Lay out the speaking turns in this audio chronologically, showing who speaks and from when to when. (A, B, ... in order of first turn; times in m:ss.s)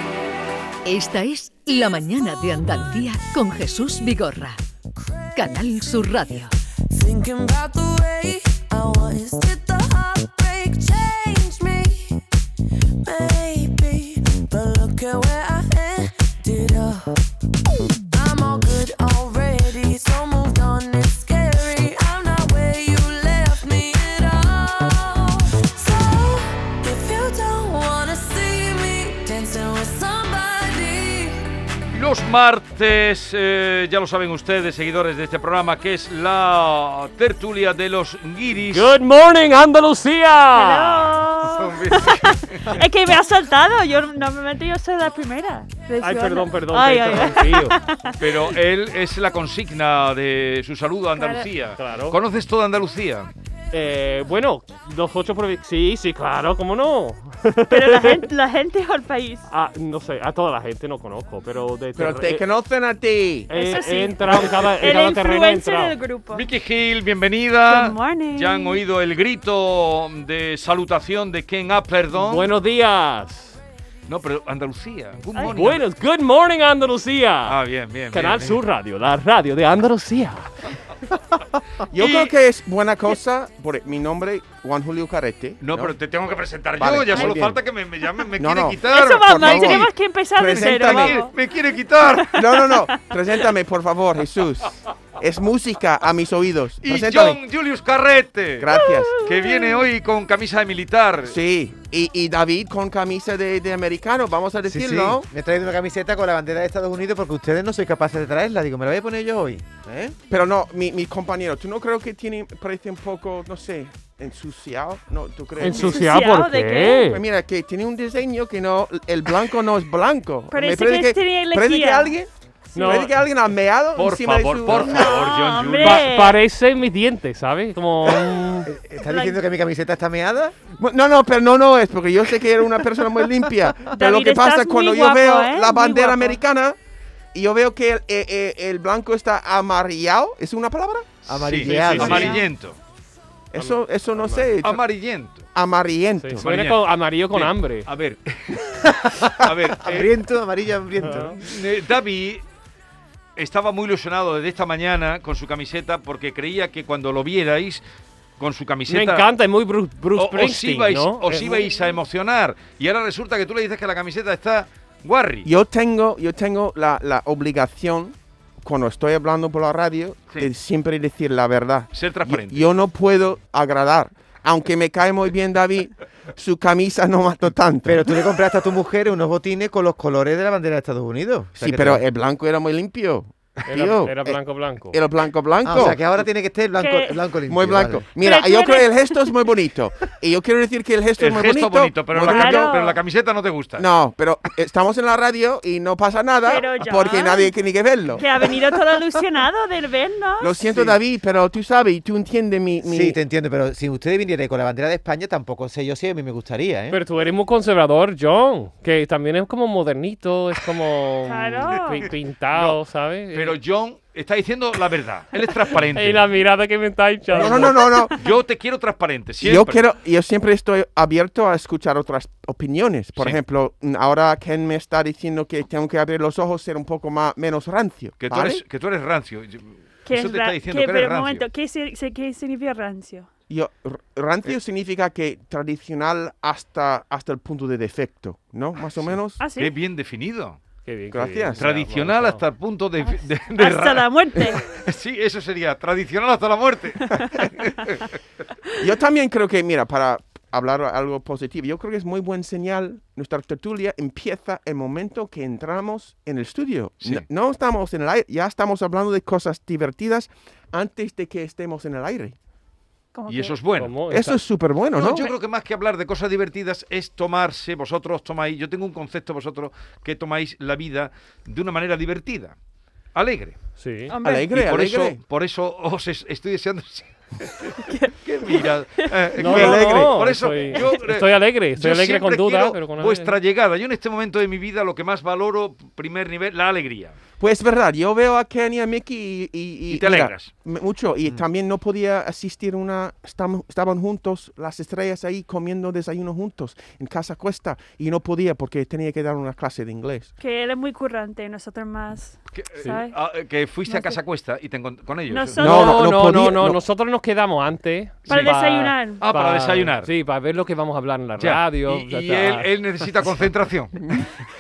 0:00.9-0:04.6 A
0:04.9-0:05.6 B
0:05.4-0:06.5 A
0:06.9-0:12.2 B
0:13.0-0:17.2 B
0:18.1-0:31.4 B
0:31.9-0:39.0 C
0:38.7-0:41.2 D
0:40.6-0:48.5 E
0:41.4-0:42.8 C
0:46.0-0:47.8 D
0:48.2-0:53.3 C
0:51.2-0:51.5 E
0:51.8-0:52.2 D
0:53.7-0:58.3 D
0:57.7-0:59.5 E
0:59.5-1:02.5 D
1:02.0-1:03.5 F
1:03.5-1:06.0 D
1:03.5-1:06.4 E
1:06.3-1:12.5 C
1:07.7-1:08.8 E
1:12.1-1:13.6 D
1:14.1-1:15.8 C
1:15.5-1:17.6 D
1:17.5-1:18.4 C
1:18.1-1:20.7 D
1:21.9-1:25.9 F
1:22.0-1:22.4 C
1:25.6-1:29.9 C
1:26.8-1:27.5 F
1:27.1-1:27.6 G
1:28.4-1:31.2 F
1:28.8-1:31.3 E
1:30.6-1:32.4 C
1:32.1-1:33.1 E
1:32.3-1:37.4 F
1:36.8-1:41.4 C
1:38.6-1:39.2 F
1:38.7-1:39.9 E
1:41.3-1:45.3 F
1:44.7-1:50.2 G
1:50.3-1:56.1 F
1:55.6-1:57.2 D
1:55.6-1:57.1 E
1:57.1-2:05.2 F
2:00.5-2:02.2 E
2:02.7-2:03.1 E
2:02.8-2:03.1 D
2:04.0-2:06.1 C
2:04.7-2:06.4 E
2:05.8-2:08.7 D
2:08.6-2:10.6 G
2:09.0-2:09.4 E
2:10.8-2:16.8 F
2:13.9-2:16.4 E
2:17.3-2:21.1 F
2:21.2-2:22.8 C
2:21.3-2:22.4 G
2:21.7-2:22.4 D
2:21.8-2:22.4 E
2:23.5-2:24.8 F
2:23.6-2:24.5 D
2:24.6-2:25.5 C
2:25.5-2:26.4 F
2:26.2-2:27.9 D
2:26.4-2:30.1 C
2:28.7-2:31.4 G
2:31.0-2:31.4 D
2:31.4-2:32.4 C
2:33.4-2:37.8 C
2:38.4-2:39.3 C
2:38.9-2:41.7 D
2:40.2-2:45.5 C
2:45.4-2:58.2 F
2:51.9-2:52.7 C
2:57.8-3:02.0 G
3:01.6-3:06.0 F
3:03.7-3:05.0 D
3:05.6-3:08.1 G
3:06.8-3:07.2 E
3:07.5-3:12.8 F
3:08.2-3:09.2 E
3:11.2-3:13.9 C
3:12.3-3:13.0 E
3:13.8-3:18.8 F
3:16.4-3:17.5 E
3:18.2-3:20.9 E
3:20.4-3:23.2 F
3:22.8-3:27.0 G
3:26.9-3:33.6 D
3:31.3-3:32.1 E
3:32.5-3:32.8 C
3:33.3-3:36.3 C
3:35.9-3:37.8 D
3:37.3-3:38.2 F
3:37.4-3:38.1 E
3:38.1-3:39.8 C
3:39.4-3:48.6 F
3:48.2-3:51.5 C
3:50.1-3:53.3 E
3:53.5-3:59.4 F
3:59.0-4:00.6 C
3:59.4-3:59.7 E
4:00.8-4:02.4 D
4:01.1-4:01.7 F
4:01.6-4:08.1 C
4:03.6-4:04.6 E
4:08.8-4:22.4 F
4:23.1-4:23.6 E
4:23.3-4:24.0 C
4:23.8-4:24.4 D
4:24.1-4:25.3 F
4:24.9-4:32.6 C
4:33.1-4:33.6 C
4:33.8-4:34.2 D
4:34.1-4:34.5 E
4:34.2-4:35.2 F
4:34.5-4:47.2 C
4:37.8-4:39.6 E
4:39.4-4:43.4 D
4:39.4-4:40.2 F
4:47.4-5:00.3 F
4:49.9-4:50.5 C
5:00.4-5:03.2 E
5:02.5-5:05.6 C
5:03.8-5:04.2 E
5:05.3-5:06.0 E
5:05.6-5:12.7 D
5:05.6-5:06.8 F
5:08.3-5:09.2 E
5:09.2-5:10.1 C
5:11.4-5:14.0 C